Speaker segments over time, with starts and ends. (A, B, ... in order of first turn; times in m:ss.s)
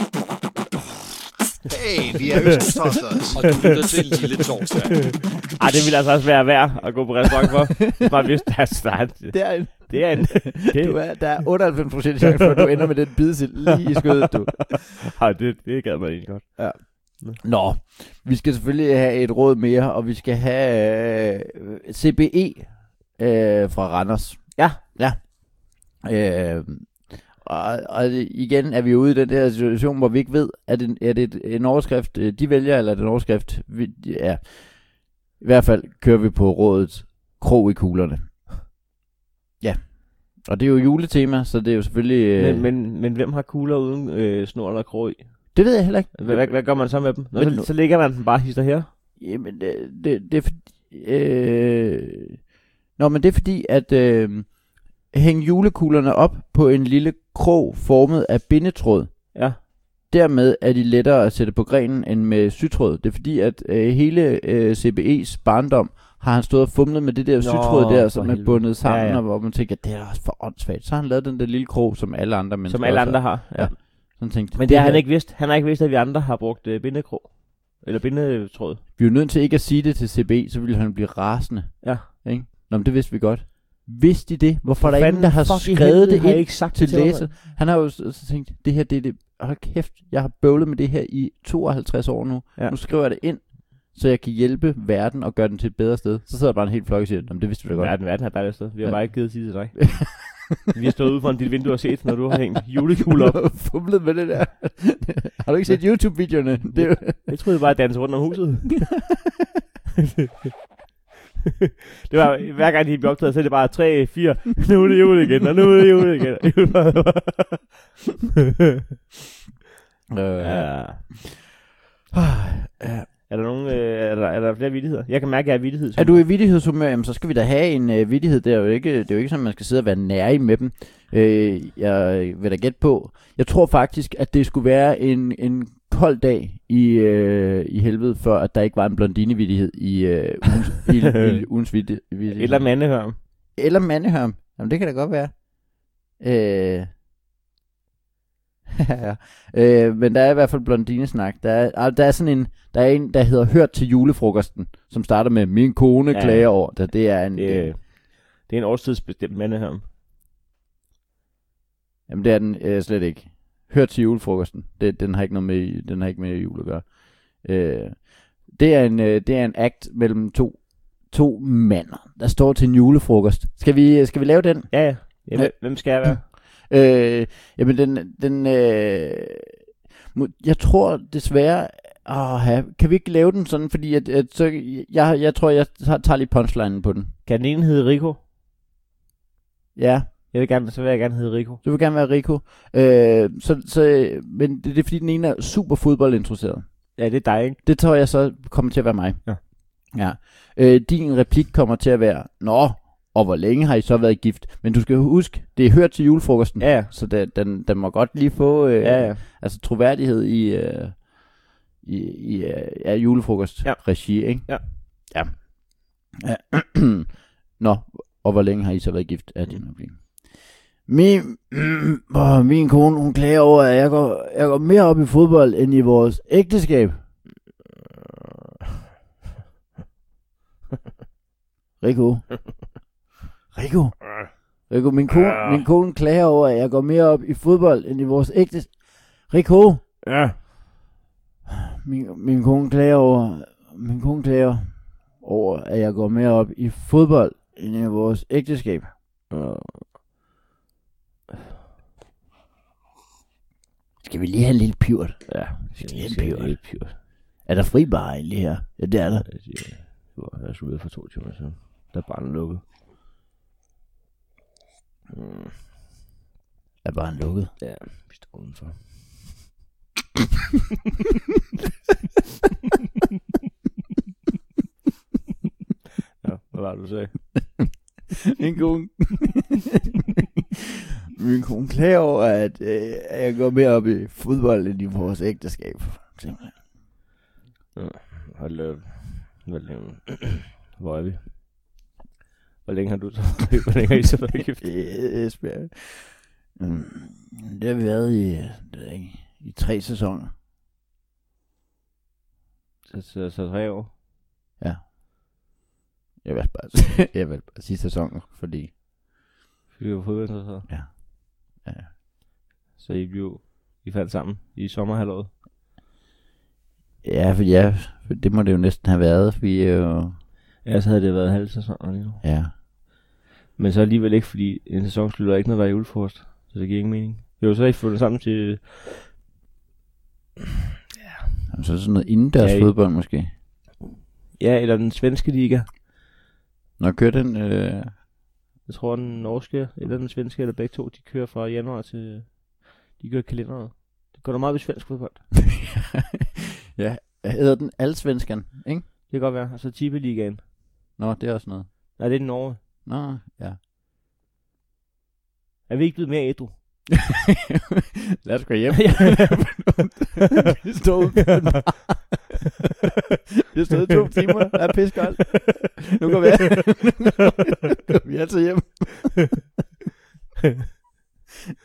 0:01.6-0:03.7 A
0:03.3-0:05.3 B
0:05.6-0:11.3 C
0:09.3-0:14.8 D
0:14.0-0:17.4 C
0:16.6-0:38.5 D
0:39.6-0:42.7 D
0:42.4-0:48.9 C
0:45.5-0:47.7 D
0:49.2-0:52.4 D
0:53.0-0:59.4 D
1:00.1-1:15.1 D
1:07.4-1:09.2 C
1:12.7-1:18.8 C
1:19.0-1:40.6 D
1:21.8-1:22.1 C
1:24.8-1:27.3 C
1:37.7-1:43.5 C
1:43.1-1:47.4 D
1:46.7-1:49.0 C
1:52.1-1:57.7 C
2:00.1-2:01.4 D
2:00.4-2:01.0 C
2:02.1-2:03.1 D
2:03.3-2:06.2 C
2:06.0-2:22.8 D
2:21.2-2:21.4 C
2:22.3-2:23.2 C
2:23.6-2:25.4 D
2:26.1-2:26.9 D
2:28.8-2:37.8 D
2:36.1-2:39.8 C
2:42.1-2:59.5 D
2:54.7-2:56.2 C
3:00.1-3:07.1 D
3:07.3-3:08.2 C
3:09.8-3:10.1 D
3:10.3-3:11.6 C
3:11.6-3:17.0 D
3:17.0-3:17.6 C
3:17.6-3:31.1 D
3:26.6-3:26.9 C
3:28.8-3:29.2 C
3:31.8-3:47.0 D
3:33.6-3:34.6 C
3:51.8-3:52.8 D
3:53.5-3:59.9 D
4:00.0-4:00.4 C
4:01.8-4:08.9 D
4:09.3-4:09.8 C
4:14.0-4:16.8 D
4:15.3-4:17.0 C
4:17.4-4:19.3 D
4:19.3-4:22.6 C
4:25.1-4:25.5 C
4:26.8-4:27.5 D
4:27.6-4:28.9 C
4:36.2-4:37.5 C
4:38.3-4:39.8 D
4:41.2-4:46.6 D
4:47.8-4:51.3 C
4:52.6-4:54.7 C
4:54.6-5:00.3 D
5:02.9-5:03.9 C
5:06.2-5:08.7 D
5:09.8-5:10.7 C
5:10.7-5:11.9 D
5:12.8-5:15.3 C
5:17.0-5:20.2 D
5:20.6-5:22.2 C
5:22.2-5:22.5 D
5:23.6-5:28.7 C
5:31.5-5:33.3 D
5:32.4-5:32.7 C
5:34.4-5:35.7 C
5:36.8-5:38.0 D
5:38.7-5:45.2 C
5:45.5-5:48.9 D
5:49.1-5:50.4 C
5:51.0-5:52.0 D
5:52.0-5:52.6 C
5:52.8-5:53.6 D
5:55.7-5:56.6 C
5:57.0-6:02.3 D
5:58.9-5:59.6 C
6:03.5-6:09.4 D